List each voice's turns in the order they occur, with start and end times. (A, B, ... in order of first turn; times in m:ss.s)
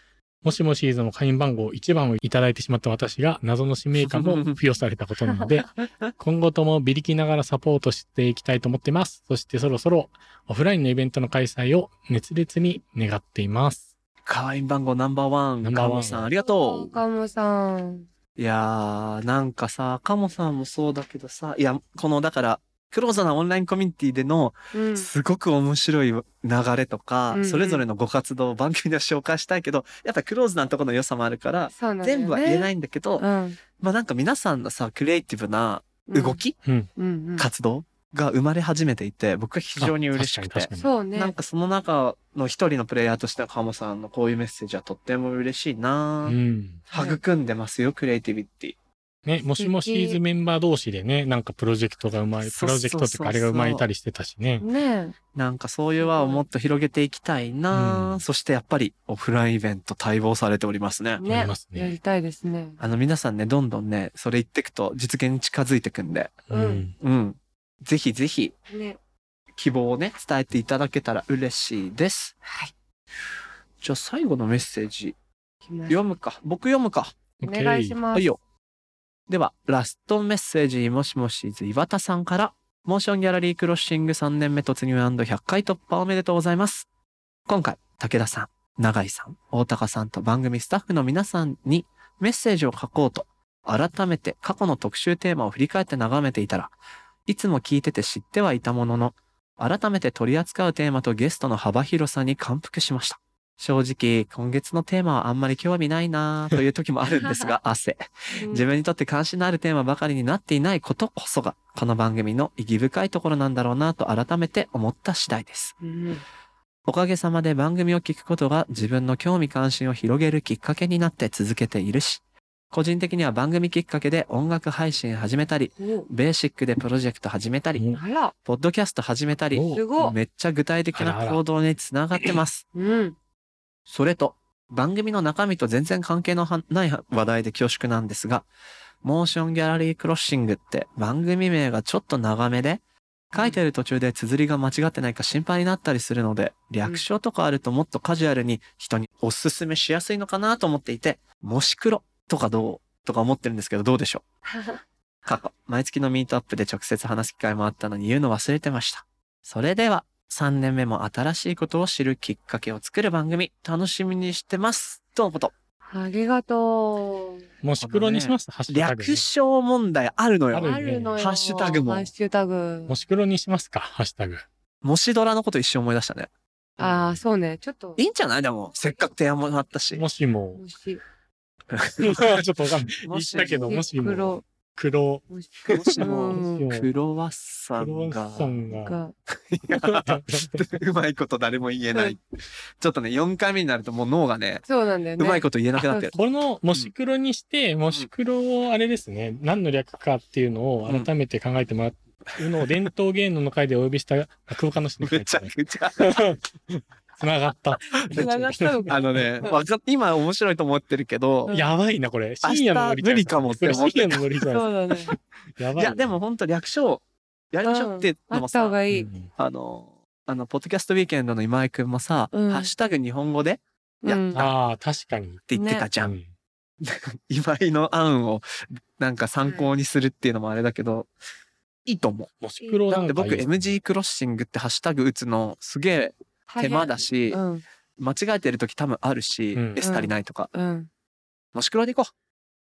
0:00.4-0:13.8 A
0:04.0-0:04.6 B
0:14.2-0:17.0 B
0:15.6-0:16.3 A
0:16.3-0:18.1 C
0:18.4-0:33.2 B
0:24.7-0:25.1 C
0:27.3-0:27.8 C
0:31.7-0:33.6 C
0:33.8-0:36.6 B
0:36.1-0:36.4 C
0:36.6-0:36.9 A
0:37.0-0:37.5 C
0:37.4-0:46.4 B
0:39.8-0:40.9 A
0:40.8-0:41.3 C
0:46.2-0:46.8 A
0:46.9-0:47.2 C
0:46.9-0:48.8 B
0:49.2-0:54.6 A
0:49.6-0:50.2 C
0:52.4-0:53.8 B
0:54.6-0:55.2 C
0:55.3-1:01.2 B
0:56.0-0:56.4 C
0:57.7-0:58.2 A
1:01.2-1:02.8 C
1:01.2-1:01.9 A
1:02.8-1:06.4 B
1:06.5-1:06.9 A
1:06.5-1:06.8 C
1:07.0-1:08.5 B
1:08.7-1:09.0 C
1:09.6-1:12.4 B
1:12.4-1:12.7 C
1:13.8-1:15.1 B
1:15.7-1:16.0 C
1:15.9-1:17.2 B
1:17.4-1:18.0 A
1:17.4-1:18.3 C
1:18.1-1:18.4 B
1:19.3-1:26.9 B
1:27.5-1:36.7 B
1:37.3-1:55.7 B
1:47.2-1:47.5 C
1:48.4-1:48.6 C
1:55.8-1:56.2 C
1:56.8-2:07.8 B
2:05.8-2:06.1 C
2:07.9-2:08.3 C
2:08.4-2:12.6 B
2:09.5-2:09.8 A
2:09.7-2:10.2 C
2:10.9-2:11.4 A
2:12.7-2:13.2 C
2:13.9-2:18.4 B
2:19.0-2:34.2 B
2:23.3-2:23.6 C
2:34.5-2:34.8 C
2:35.2-2:45.5 B
2:45.9-2:47.4 C
2:47.6-2:49.2 A
2:47.8-2:52.1 B
2:50.5-2:51.2 A
2:50.6-2:53.0 C
2:52.9-2:54.4 A
2:54.8-2:56.3 B
2:56.8-2:58.0 C
2:56.8-2:57.1 A
2:58.0-3:00.0 B
2:59.9-3:00.6 A
3:00.6-3:01.0 C
3:01.7-3:03.8 B
3:02.0-3:06.9 A
3:03.3-3:04.4 C
3:05.3-3:06.6 C
3:05.7-3:08.6 B
3:07.8-3:09.0 A
3:08.7-3:09.1 C
3:09.3-3:12.2 B
3:09.7-3:10.7 A
3:12.8-3:14.6 B
3:14.7-3:16.2 C
3:15.2-3:16.2 B
3:16.1-3:29.4 A
3:25.0-3:26.3 B
3:28.1-3:29.6 C
3:28.9-3:31.5 B
3:31.5-3:31.7 C
3:31.5-3:36.1 A
3:32.4-3:34.4 B
3:33.7-3:33.9 C
3:34.5-3:35.1 C
3:35.8-3:38.8 B
3:37.6-3:39.1 C
3:38.9-3:39.3 A
3:39.3-3:44.5 B
3:42.3-3:42.7 C
3:44.0-3:44.5 C
3:44.3-3:45.5 A
3:45.5-3:46.1 B
3:45.5-3:45.8 C
3:46.0-3:46.2 A
3:46.8-3:51.1 B
3:49.4-3:49.7 C
3:51.8-3:52.3 B
3:52.4-3:53.7 A
3:52.6-3:53.1 C
3:53.0-3:57.4 B
3:56.5-3:57.6 C
3:58.0-4:00.5 B
3:59.5-3:59.9 A
3:59.8-4:00.9 C
4:01.5-4:02.1 B